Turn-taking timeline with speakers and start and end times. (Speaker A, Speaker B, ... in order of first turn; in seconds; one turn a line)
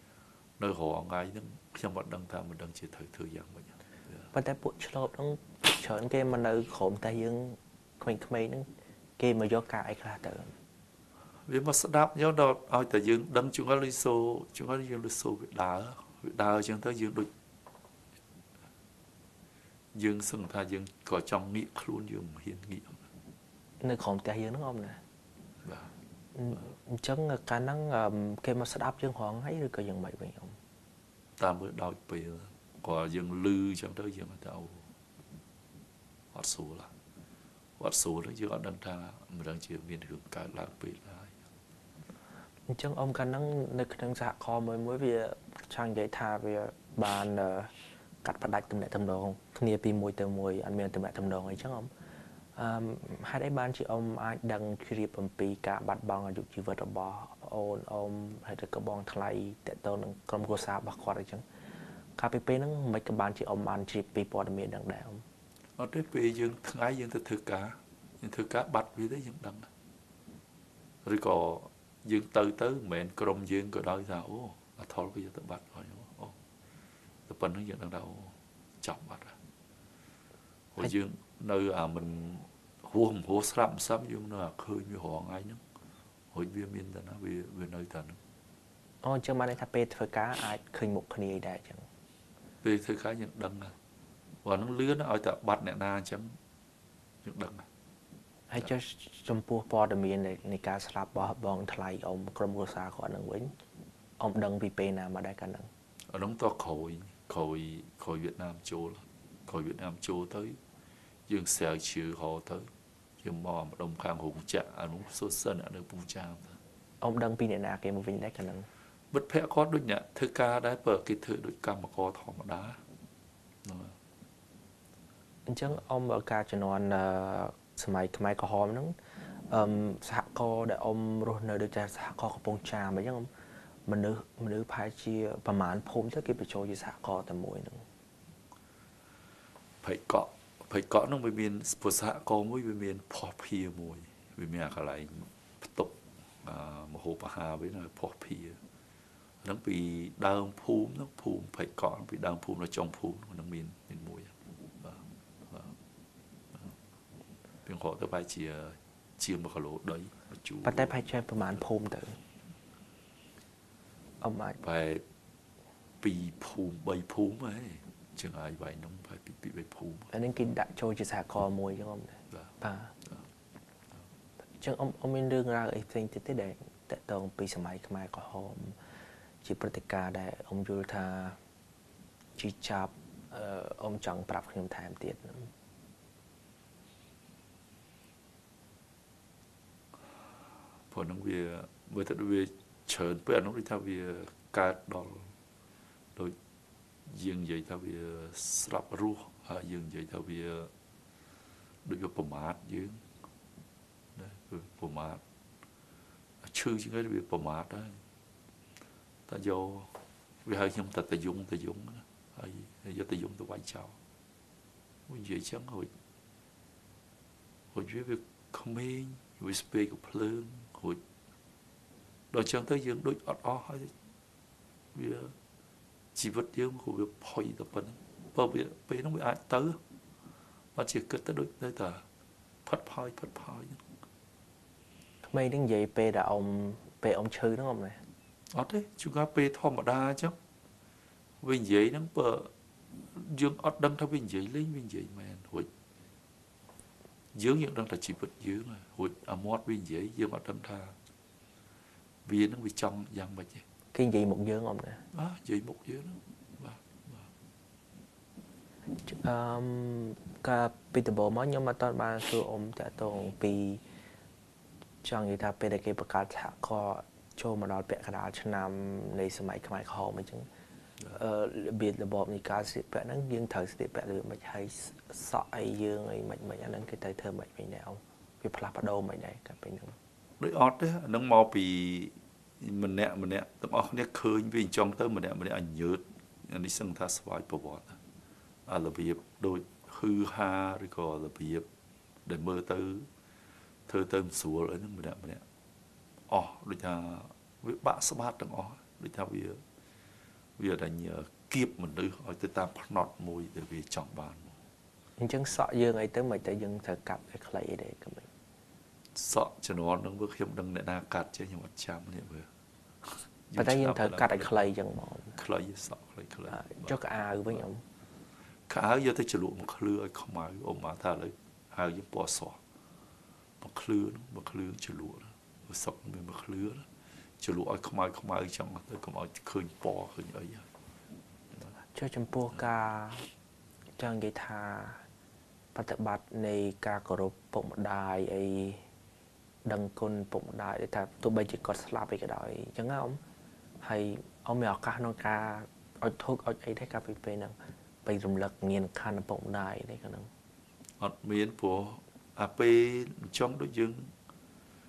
Speaker A: 0.6-4.2
Speaker B: 4.3-10.5
Speaker A: 11.4-17.3
Speaker A: 19.9-23.1
Speaker B: 23.8-25.0
Speaker A: 25.6-25.9
Speaker B: 26.3-30.6
Speaker A: 31.4-34.9
Speaker A: 36.3-36.9
Speaker A: 37.8-41.3
Speaker B: 42.7-47.7
Speaker B: 48.2-51.9
Speaker B: 52.5-61.4
Speaker B: 62.1-65.2
Speaker A: 65.8-69.7
Speaker A: 71.0-76.3
Speaker A: 77.3-79.4
Speaker A: 80.7-85.6
Speaker A: 86.3-88.2
Speaker B: 89.0-91.8
Speaker A: 92.6-93.7
Speaker A: 94.4-96.3
Speaker A: 97.2-97.7
Speaker B: 98.5-103.5
Speaker B: 104.2-105.7
Speaker A: 106.1-110.6
Speaker A: 111.3-112.7
Speaker A: 113.2-116.6
Speaker B: 117.0-118.7
Speaker A: 119.1-122.8
Speaker A: 123.6-124.0
Speaker B: 125.5-133.3
Speaker B: 133.9-137.8
Speaker A: 139.8-148.6
Speaker A: 149.4-155.7
Speaker A: 157.6-160.9
Speaker B: 160.6-162.2
Speaker B: 164.2-164.6
Speaker A: 164.6-165.0
Speaker A: 166.0-170.1
Speaker B: 170.1-172.9
Speaker B: 174.6-178.8
Speaker B: 179.4-181.4
Speaker B: 182.4-185.5
Speaker A: 190.9-195.3
Speaker A: 197.1-200.7
Speaker A: 201.8-203.0
Speaker A: 204.1-205.2
Speaker A: 206.4-208.0
Speaker A: 209.3-209.9
Speaker A: 210.4-213.9
Speaker A: 215.1-215.9
Speaker A: 217.7-221.0
Speaker A: 222.3-223.9
Speaker A: 224.9-225.3
Speaker A: 226.1-229.8
Speaker A: 230.7-232.0
Speaker A: 232.6-233.8
Speaker B: 235.2-238.0
Speaker A: 238.5-240.3
Speaker A: 241.4-242.5
Speaker A: 243.0-245.7
Speaker A: 247.3-250.9
Speaker A: 252.2-253.6
Speaker B: 253.9-255.0
Speaker A: 255.1-257.3
Speaker B: 259.0-263.8
Speaker B: 265.0-270.5
Speaker B: 271.1-279.9
Speaker A: 280.4-288.0
Speaker A: 288.6-291.6
Speaker A: 292.2-293.1
Speaker A: 293.9-295.4
Speaker A: 296.3-299.6
Speaker A: 300.6-304.6
Speaker B: 305.2-308.3
Speaker A: 309.1-312.5
Speaker A: 313.0-314.5
Speaker B: 313.6-315.4
Speaker A: 315.4-316.9
Speaker B: 316.5-317.8
Speaker A: 318.7-322.6
Speaker A: 323.6-326.9
Speaker A: 327.4-330.7
Speaker B: 331.8-333.3
Speaker B: 334.0-335.0
Speaker B: 335.7-338.8
Speaker B: 339.6-343.2
Speaker B: 343.8-350.3
Speaker A: 351.0-354.1